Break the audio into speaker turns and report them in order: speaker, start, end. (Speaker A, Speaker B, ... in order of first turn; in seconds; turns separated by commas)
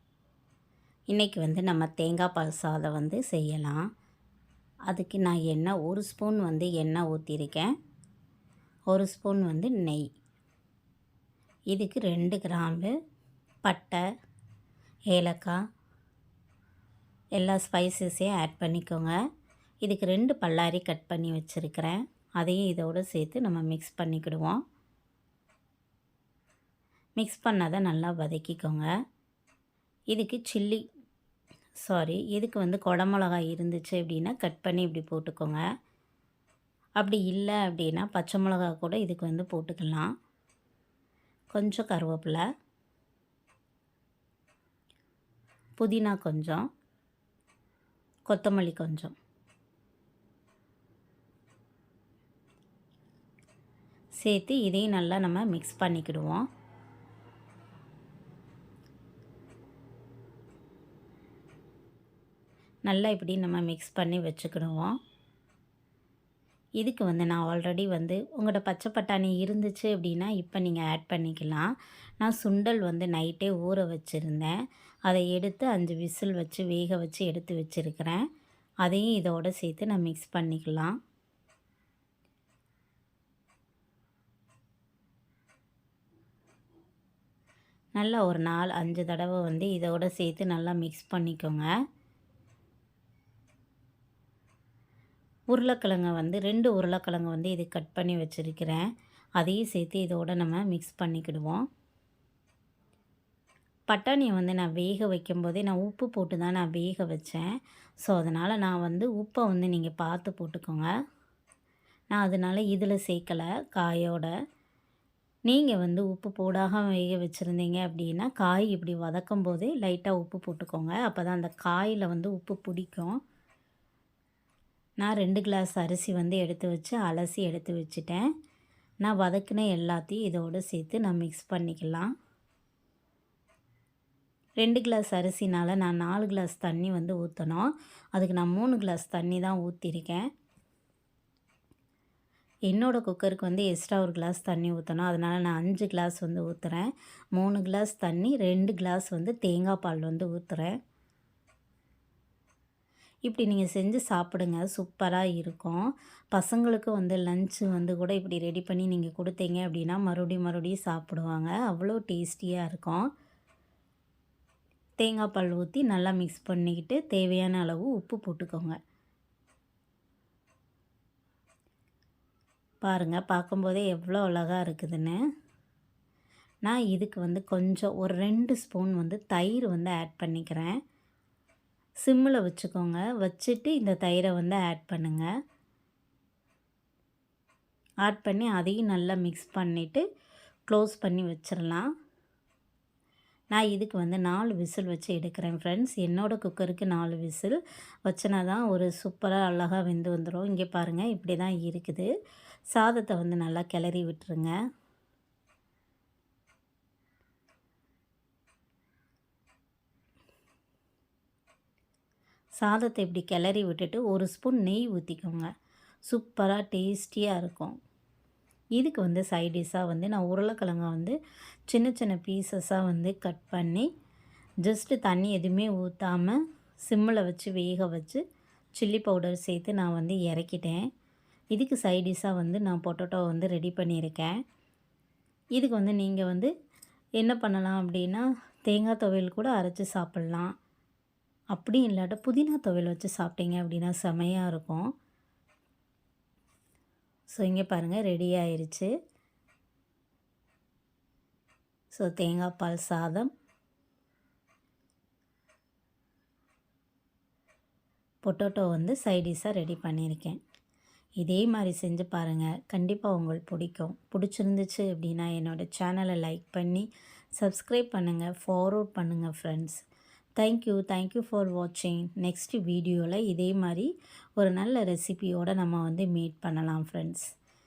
Speaker A: 1.1-3.8, Speaker A: 4.9-7.7, Speaker A: 8.9-10.0, Speaker A: 11.7-12.9, Speaker A: 13.7-14.0, Speaker A: 15.1-15.6, Speaker A: 17.4-19.1, Speaker A: 19.8-24.6, Speaker A: 27.2-28.9, Speaker A: 30.1-30.8, Speaker A: 31.8-35.6, Speaker A: 37.0-40.1, Speaker A: 41.5-42.4, Speaker A: 45.8-46.6, Speaker A: 48.3-49.1, Speaker A: 54.2-56.5, Speaker A: 62.9-65.0, Speaker A: 66.8-71.7, Speaker A: 72.2-78.3, Speaker A: 78.8-81.0, Speaker A: 88.0-91.7, Speaker A: 95.5-101.7, Speaker A: 103.9-107.5, Speaker A: 108.0-110.9, Speaker A: 112.1-114.3, Speaker A: 115.5-123.2, Speaker A: 125.0-128.3, Speaker A: 129.0-132.1, Speaker A: 134.6-140.3, Speaker A: 142.7-150.8, Speaker A: 153.3-163.1, Speaker A: 165.0-168.8, Speaker A: 172.8-175.2, Speaker A: 176.7-180.8, Speaker A: 182.1-185.3, Speaker A: 188.1-190.0, Speaker A: 190.7-191.9, Speaker A: 193.5-202.1, Speaker A: 202.8-204.5, Speaker A: 212.6-215.5, Speaker A: 216.1-217.8, Speaker A: 218.8-223.9, Speaker A: 224.6-228.2, Speaker A: 228.8-230.9, Speaker A: 231.5-234.4, Speaker A: 235.6-236.5, Speaker A: 237.2-240.6, Speaker A: 241.5-244.9, Speaker A: 247.3-248.9, Speaker A: 251.9-253.3, Speaker A: 258.2-260.4, Speaker A: 261.2-269.8, Speaker A: 270.4-277.2